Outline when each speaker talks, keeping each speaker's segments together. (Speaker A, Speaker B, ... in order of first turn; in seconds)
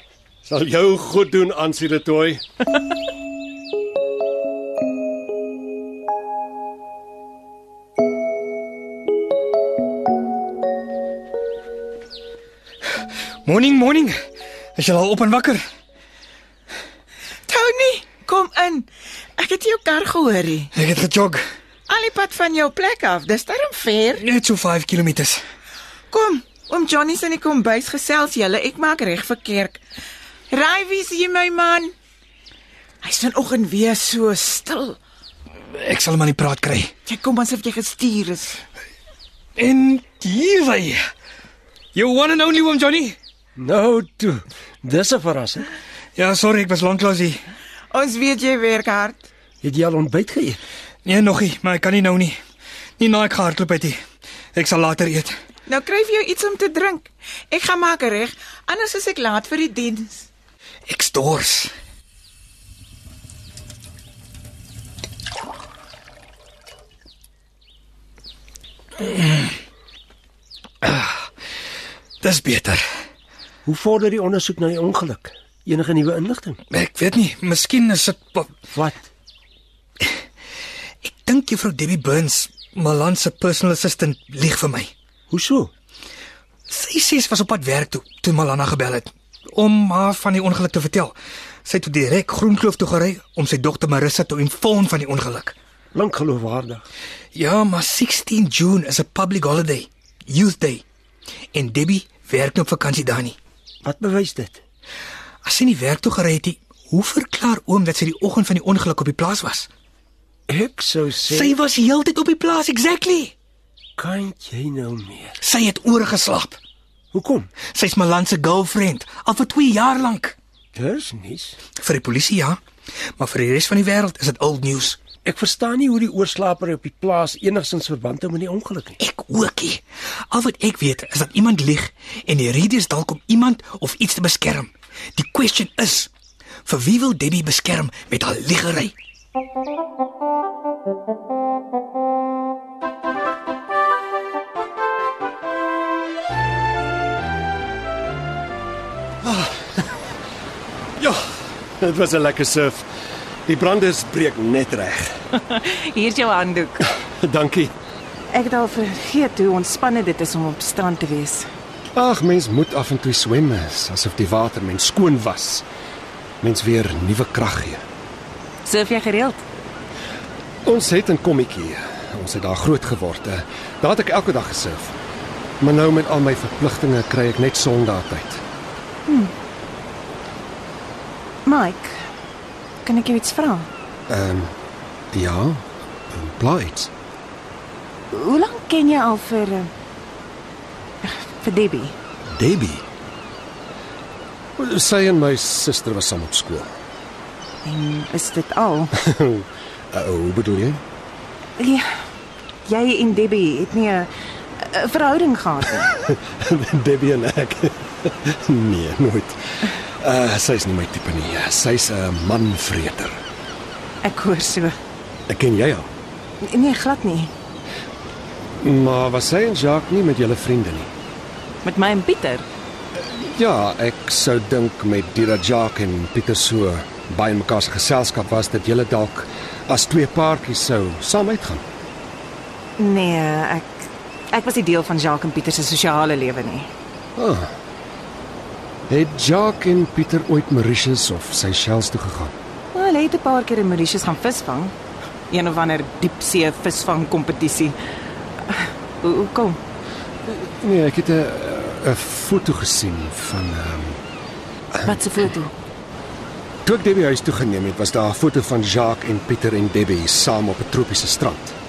Speaker A: 0.4-2.4, 149.2-149.7, 151.8-152.9, 153.5-155.1, 157.2-157.7, 161.9-165.7, 166.4-167.8, 170.7-175.0, 175.6-178.4, 184.1-184.5, 185.1-186.9, 192.3-192.8, 194.6-196.7, 199.0-200.8, 206.0-213.2, 215.3-215.9, 218.6-220.9, 223.1-231.7, 237.2-237.5, 238.9-242.3, 250.3-254.0, 256.6-261.6
Speaker B: 13.4-14.2, 14.8-15.6, 20.8-21.4, 24.2-25.4, 35.7-36.9, 39.6-41.0, 41.9-43.2, 46.2-47.4, 51.0-52.4, 53.0-54.0, 54.5-55.3, 60.9-61.7, 69.0-69.5, 70.8-71.2, 72.2-72.8, 76.7-78.6, 81.0-84.9, 86.7-95.5, 97.3-100.8, 101.5-103.4, 105.4-109.7, 111.2-113.3, 115.4-116.6, 117.6-120.4, 121.8-122.6, 123.2-125.0, 129.0-136.1, 136.7-138.9
Speaker C: 17.5-18.9, 19.4-20.7, 21.9-24.2, 26.1-29.8, 30.5-31.9, 33.0-35.0, 37.1-38.6, 47.9-49.3, 55.7-60.3
Speaker D: 43.6-45.7, 49.6-50.6, 73.7-76.6, 78.7-79.0, 85.3-85.7, 95.9-96.8, 103.8-104.6, 110.5-111.5, 114.0-115.3, 117.1-117.5, 120.8-121.6, 125.2-129.0
Speaker E: 155.4-156.8, 158.3-161.5, 168.6-169.4, 179.1-179.3, 181.4-182.1, 182.8-183.7, 188.1-189.7, 191.0-192.0, 197.6-198.9, 201.6-201.9, 202.7-205.9, 214.0-214.8, 216.4-217.3, 221.6-222.5, 232.8-236.7, 242.7-244.8, 245.3-247.8, 248.4-249.6, 254.8-255.5